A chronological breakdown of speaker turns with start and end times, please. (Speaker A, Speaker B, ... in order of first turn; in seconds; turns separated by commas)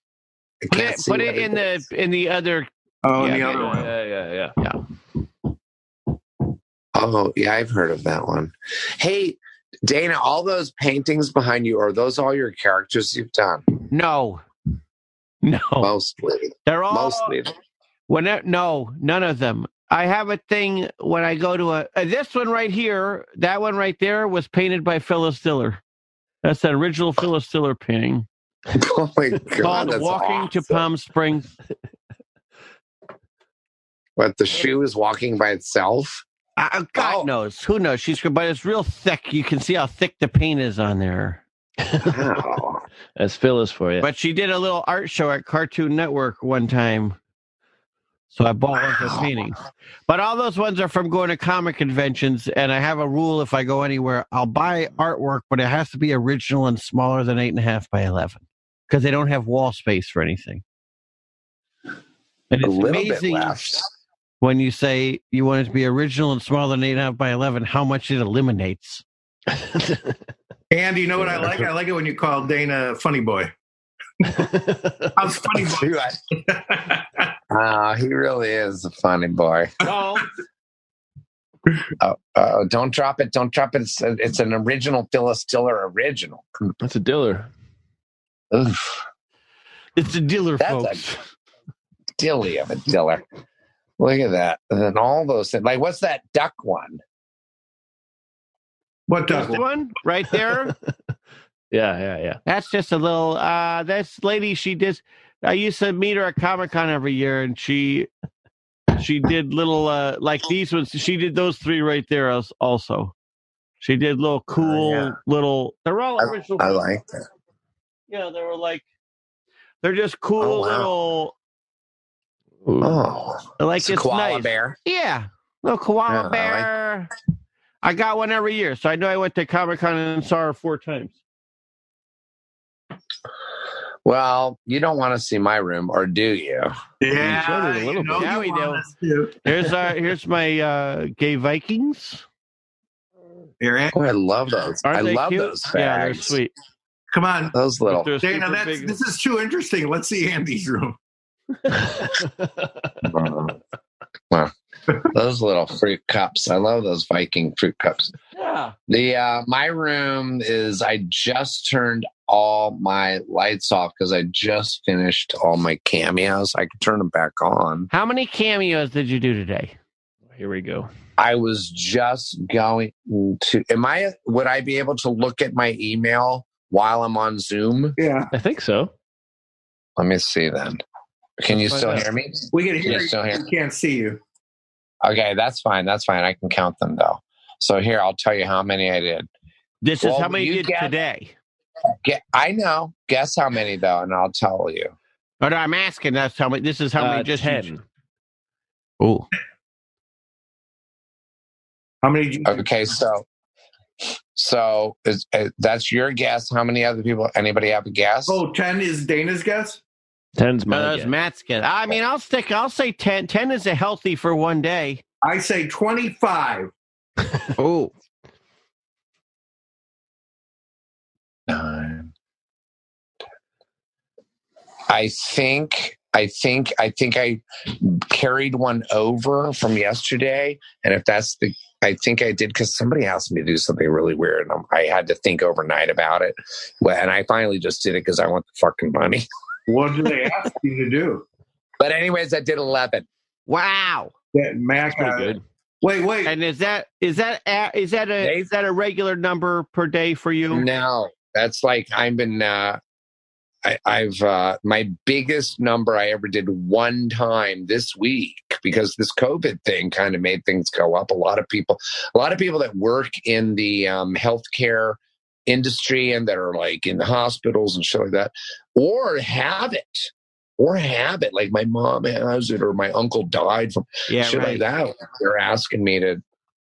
Speaker A: 0.6-1.8, Speaker B: 0.7-3.9, Speaker C: 3.0-3.9, Speaker D: 3.5-4.5, Speaker A: 7.0-13.7, Speaker B: 13.9-14.4, Speaker B: 15.4-15.9, Speaker A: 15.8-17.5, Speaker B: 16.7-17.4, Speaker B: 18.1-25.8, Speaker B: 26.4-28.3, Speaker A: 28.7-30.8, Speaker B: 29.6-31.5, Speaker A: 34.2-36.2, Speaker B: 36.6-41.4, Speaker A: 37.0-37.3, Speaker D: 41.9-42.2, Speaker A: 42.0-42.8, Speaker D: 43.2-44.1, Speaker B: 44.0-47.2, Speaker B: 48.3-60.6, Speaker B: 62.5-63.6, Speaker A: 62.6-63.9, Speaker B: 64.4-69.0, Speaker C: 70.7-73.5, Speaker D: 74.5-75.1, Speaker C: 75.2-76.0, Speaker A: 75.5-76.2, Speaker C: 76.5-77.2, Speaker A: 77.5-79.7, Speaker B: 79.8-80.3, Speaker A: 82.0-86.5, Speaker D: 86.8-87.5, Speaker A: 88.5-89.0, Speaker B: 90.0-91.2, Speaker A: 90.6-91.0, Speaker A: 92.2-93.2, Speaker A: 94.0-97.0, Speaker C: 99.1-99.6, Speaker B: 99.3-100.7, Speaker D: 101.7-102.4, Speaker B: 102.5-108.1, Speaker B: 109.0-113.1, Speaker B: 113.8-116.8, Speaker A: 114.6-115.2, Speaker A: 116.2-117.2, Speaker B: 118.1-118.8, Speaker B: 119.8-121.3, Speaker A: 120.4-120.9, Speaker D: 122.7-123.0, Speaker A: 122.8-124.8, Speaker B: 123.6-127.1, Speaker A: 126.1-126.7, Speaker B: 127.8-131.1, Speaker A: 134.1-136.8, Speaker C: 137.0-139.4, Speaker D: 137.2-138.3, Speaker B: 138.2-138.8, Speaker B: 139.4-142.2, Speaker C: 143.6-144.0, Speaker A: 143.9-146.4, Speaker B: 144.9-146.5, Speaker C: 147.1-147.6, Speaker A: 147.5-148.2, Speaker B: 147.9-149.0, Speaker C: 148.2-151.0, Speaker D: 152.0-152.9, Speaker A: 153.0-153.6, Speaker A: 155.1-158.1, Speaker B: 158.3-158.7, Speaker A: 158.9-167.9, Speaker B: 167.9-169.8, Speaker D: 170.3-170.9, Speaker A: 171.2-178.0, Speaker C: 178.0-178.3, Speaker D: 178.3-178.9, Speaker A: 180.0-180.8, Speaker A: 181.4-183.5, Speaker C: 182.5-184.2, Speaker A: 185.0-189.3, Speaker B: 189.8-191.3, Speaker A: 190.0-190.9, Speaker A: 192.0-194.9, Speaker B: 195.4-197.7, Speaker D: 197.0-197.8, Speaker B: 199.0-199.3, Speaker C: 202.0-202.7, Speaker A: 202.5-203.2, Speaker A: 204.3-208.4, Speaker C: 208.3-209.8, Speaker D: 210.4-211.1, Speaker B: 210.7-215.0, Speaker C: 215.2-216.7, Speaker B: 217.6-217.9, Speaker A: 221.5-222.1, Speaker A: 224.9-239.3, Speaker C: 239.7-241.2, Speaker A: 241.8-243.1, Speaker B: 243.5-244.1, Speaker C: 244.3-246.3, Speaker D: 244.9-245.4, Speaker B: 246.2-250.7, Speaker A: 250.5-252.8, Speaker A: 253.6-276.2, Speaker B: 274.1-274.6